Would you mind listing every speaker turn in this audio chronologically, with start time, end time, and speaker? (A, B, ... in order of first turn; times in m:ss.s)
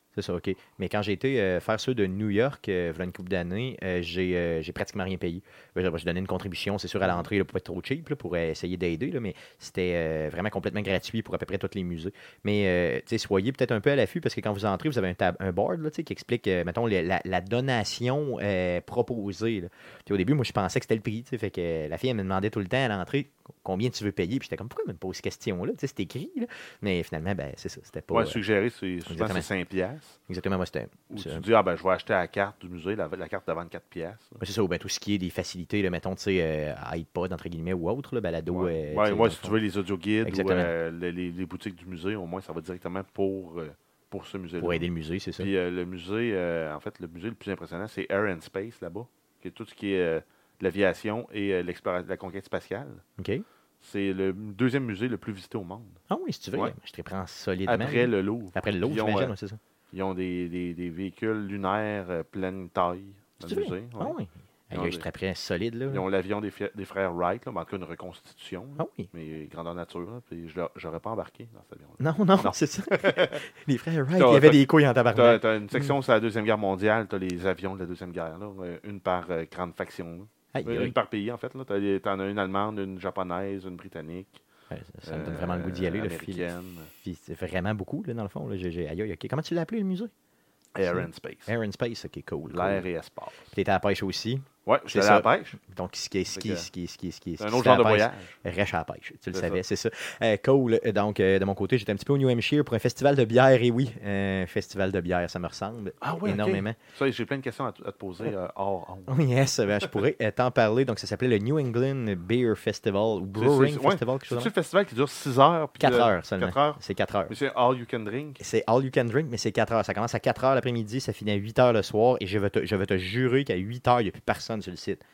0:00.2-0:28.4 A
0:28.1-0:30.2 B
0:29.1-0:29.5 A
0:30.3-0:31.4 A
0:31.1-0:34.4 B
0:34.4-0:39.6 A
0:38.5-0:44.9 B
0:40.2-0:40.7 A
0:44.6-0:45.5 A
0:45.4-0:53.0 B
0:53.2-0:53.4 A
0:53.8-0:56.0 B
0:56.1-0:59.6 A
0:57.7-0:59.3 B
0:59.9-1:04.2 B
1:03.4-1:06.0 A
1:04.7-1:05.1 B
1:05.9-1:13.4 B
1:08.8-1:09.1 A
1:12.0-1:15.9 A
1:14.1-1:14.6 B
1:15.1-1:24.4 B
1:20.5-1:20.9 A
1:24.7-1:30.1 A
1:25.0-1:26.9 B
1:30.8-1:31.6 B
1:30.9-1:32.9 A
1:32.5-1:33.5 B
1:33.5-1:46.8 A
1:34.7-1:35.6 B
1:36.3-1:36.7 B
1:37.4-1:38.4 B
1:39.3-1:39.6 B
1:46.0-1:49.2 B
1:49.1-1:54.5 A
1:53.4-1:58.4 B
1:55.8-1:57.3 A
1:58.4-2:05.0 A